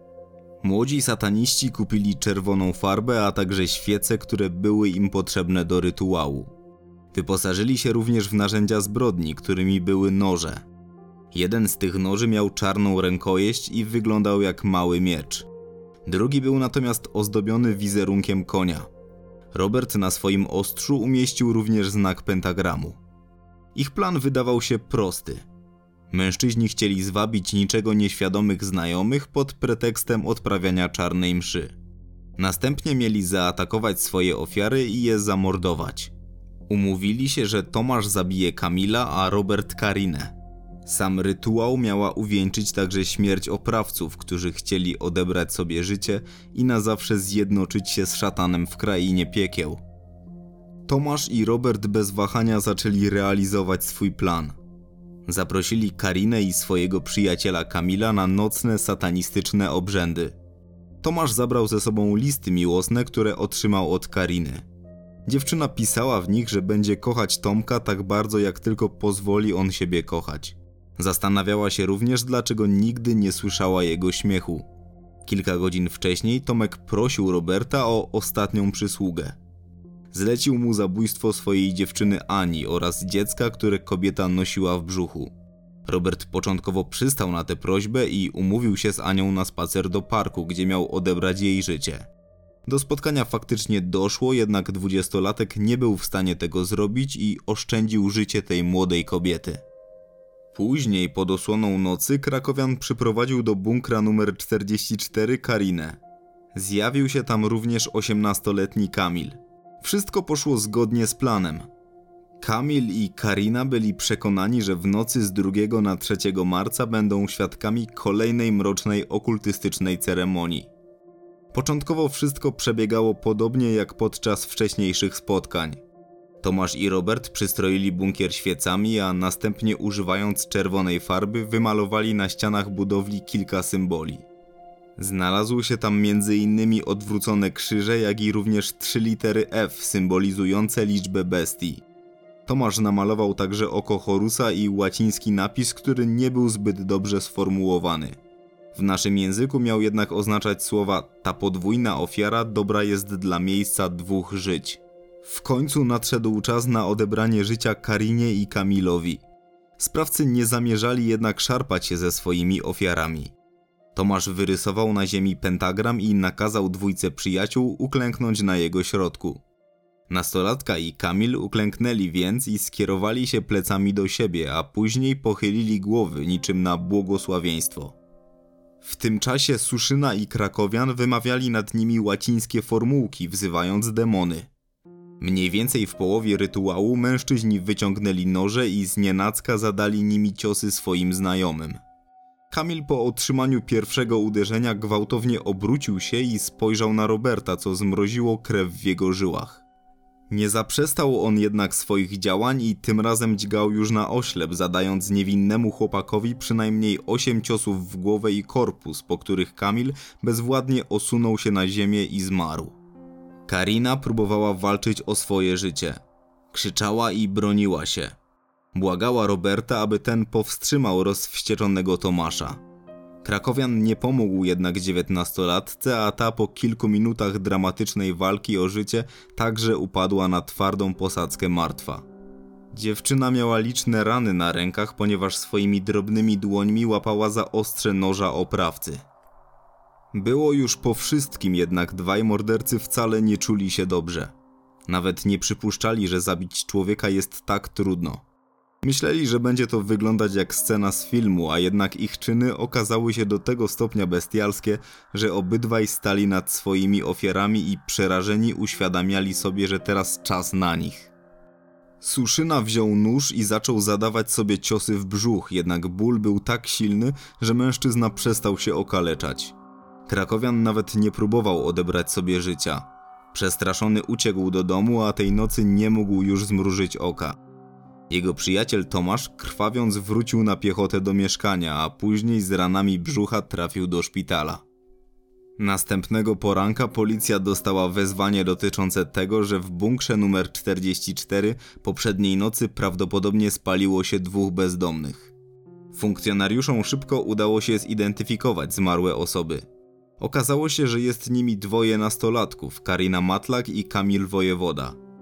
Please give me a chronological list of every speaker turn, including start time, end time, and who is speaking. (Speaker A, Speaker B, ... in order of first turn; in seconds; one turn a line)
Speaker A: 0.6-6.5
Speaker A: 7.1-10.6
Speaker A: 11.3-15.5
Speaker A: 16.0-18.9
Speaker A: 19.5-23.0
Speaker A: 23.8-25.4
Speaker A: 26.1-31.7
Speaker A: 32.4-36.1
Speaker A: 36.7-40.3
Speaker A: 40.9-49.8
Speaker A: 50.9-54.6
Speaker A: 55.2-60.4
Speaker A: 61.0-64.6
Speaker A: 65.2-74.6
Speaker A: 75.2-79.4
Speaker A: 80.1-85.3
Speaker A: 85.9-92.1
Speaker A: 92.7-99.6
Speaker A: 100.5-106.0
Speaker A: 106.5-111.7
Speaker A: 112.4-120.7
Speaker A: 121.5-125.8
Speaker A: 126.4-134.2
Speaker A: 135.0-141.8
Speaker A: 142.5-148.2
Speaker A: 148.7-159.2
Speaker A: 159.8-163.3
Speaker A: 163.9-169.4
Speaker A: 170.1-177.9
Speaker A: 178.8-184.5
Speaker A: 185.2-191.8
Speaker A: 192.5-199.6
Speaker A: 200.3-212.8
Speaker A: 213.5-216.0
Speaker A: 216.5-218.2
Speaker A: 218.7-222.6
Speaker A: 223.2-232.0
Speaker A: 232.7-239.0
Speaker A: 240.1-244.3
Speaker A: 244.9-248.2
Speaker A: 248.8-261.1
Speaker A: 262.0-269.5
Speaker A: 270.1-277.4
Speaker A: 278.1-284.6
Speaker A: 285.6-295.3
Speaker A: 295.9-299.6
Speaker A: 300.2-305.0